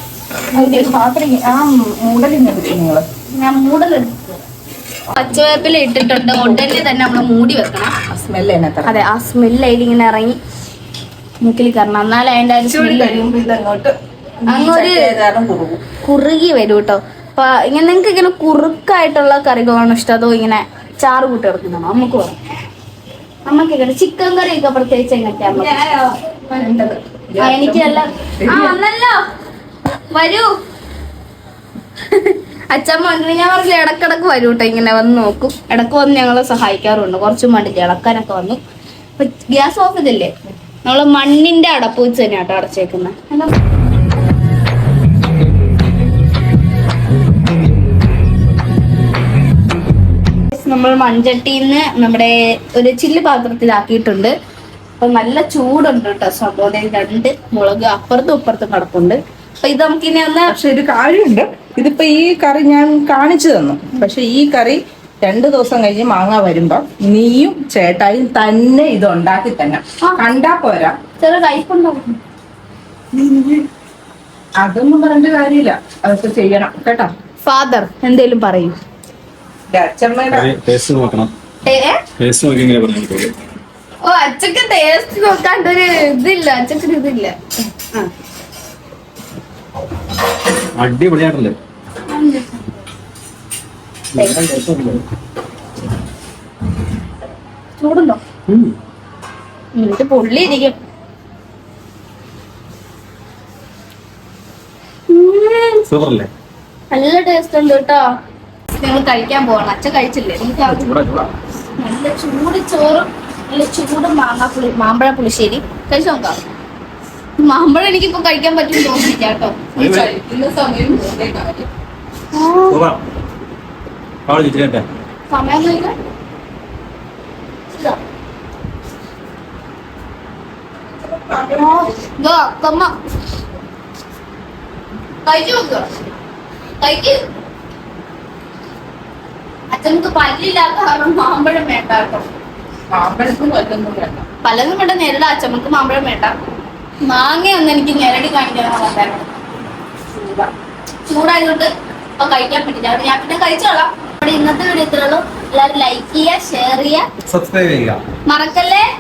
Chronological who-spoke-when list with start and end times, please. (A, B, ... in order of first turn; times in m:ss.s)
0:00.5-0:03.1 A
0:00.6-0:00.9 B
0:03.4-0:04.4 B
0:05.1-0:07.9 B
0:08.1-0:09.0 A
0:08.8-0:10.4 B
0:11.4-0:13.2 B
0:12.7-0:15.9 A
0:14.5-0:15.2 B
0:16.0-0:22.4 B
0:23.5-0:29.2 B
0:26.6-0:28.8 A
0:30.1-0:30.5 B
0:32.1-0:38.6 B
0:39.2-0:40.3 B
0:40.9-0:43.5 B
0:50.5-0:54.3 B
0:55.0-1:00.6 B
1:00.5-1:11.0 A
1:11.2-1:12.2 B
1:14.6-1:17.1 A
1:17.5-1:18.8 B
1:19.7-1:20.5 A
1:20.3-1:21.3 C
1:21.7-1:22.0 B
1:22.2-1:23.3 C
1:24.0-1:27.4 B
1:30.8-1:31.6 C
1:32.1-1:32.8 B
1:34.1-1:35.0 C
1:37.8-1:38.2 B
1:38.5-1:38.8 C
1:39.8-1:40.8 B
1:45.1-1:45.9 B
1:45.9-1:46.3 C
1:46.9-1:48.1 B
1:48.8-1:51.0 B
1:50.6-1:51.3 C
1:51.8-1:56.4 B
1:57.4-1:59.8 B
1:59.8-2:01.7 A
1:59.8-2:00.1 C
2:02.3-2:02.8 B
2:02.7-2:03.0 C
2:04.3-2:04.8 C
2:05.3-2:06.0 B
2:11.0-2:12.0 A
2:11.6-2:12.9 B
2:15.2-2:15.9 B
2:16.8-2:17.2 B
2:19.7-2:22.3 B
2:22.9-2:24.3 A
2:24.4-2:26.4 B
2:27.0-2:29.3 B
2:30.2-2:30.5 B
2:31.1-2:37.1 B
2:37.3-2:38.0 C
2:38.3-2:38.9 B